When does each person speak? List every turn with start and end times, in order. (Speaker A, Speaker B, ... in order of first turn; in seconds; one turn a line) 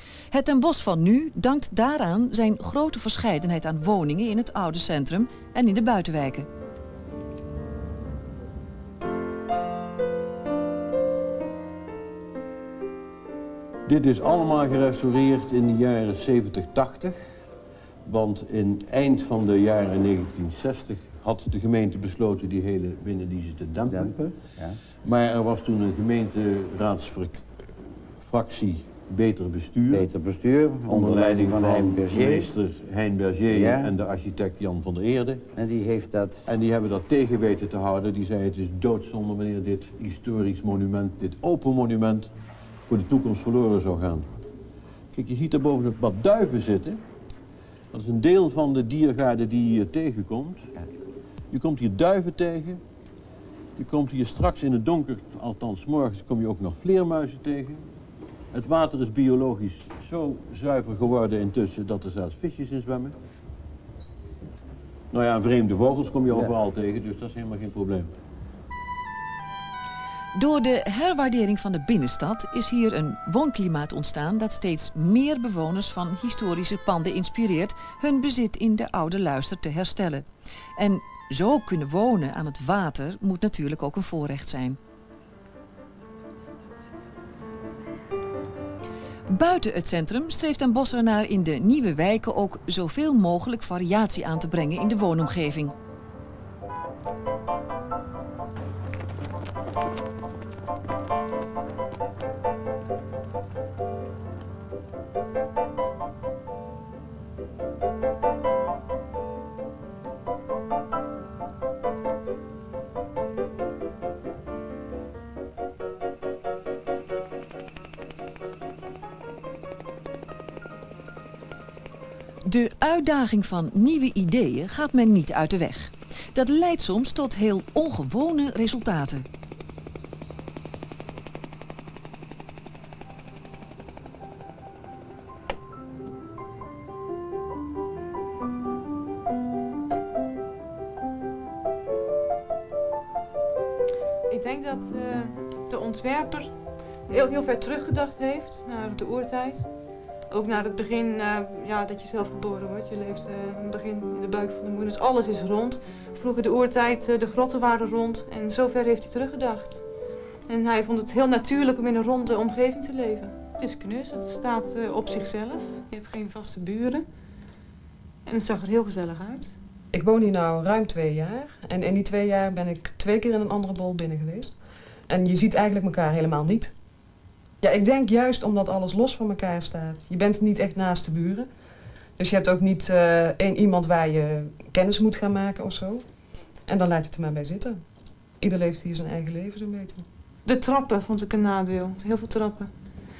Speaker A: 0.3-6.5
Speaker B: 13.8-17.4
Speaker B: 18.0-24.2
Speaker C: 23.9-24.8
Speaker B: 25.0-27.4
Speaker B: 28.2-30.1
Speaker C: 29.9-32.5
Speaker B: 30.9-35.5
Speaker C: 33.5-33.9
Speaker C: 35.5-36.4
Speaker B: 36.5-42.3
Speaker B: 42.9-44.3
Speaker B: 45.1-47.0
Speaker B: 47.9-50.7
Speaker B: 51.5-52.8
Speaker B: 53.8-57.9
Speaker B: 58.5-63.1
Speaker B: 65.1-68.1
Speaker A: 70.3-80.2
Speaker A: 80.8-84.8
Speaker A: 89.3-95.7
Speaker A: 122.4-129.2
Speaker D: 144.3-149.7
Speaker D: 150.3-159.8
Speaker D: 160.4-167.0
Speaker D: 168.2-169.5
Speaker E: 169.9-176.7
Speaker E: 177.6-181.5
Speaker E: 182.2-186.0
Speaker E: 186.7-187.8
Speaker E: 188.4-190.0
Speaker D: 190.4-192.7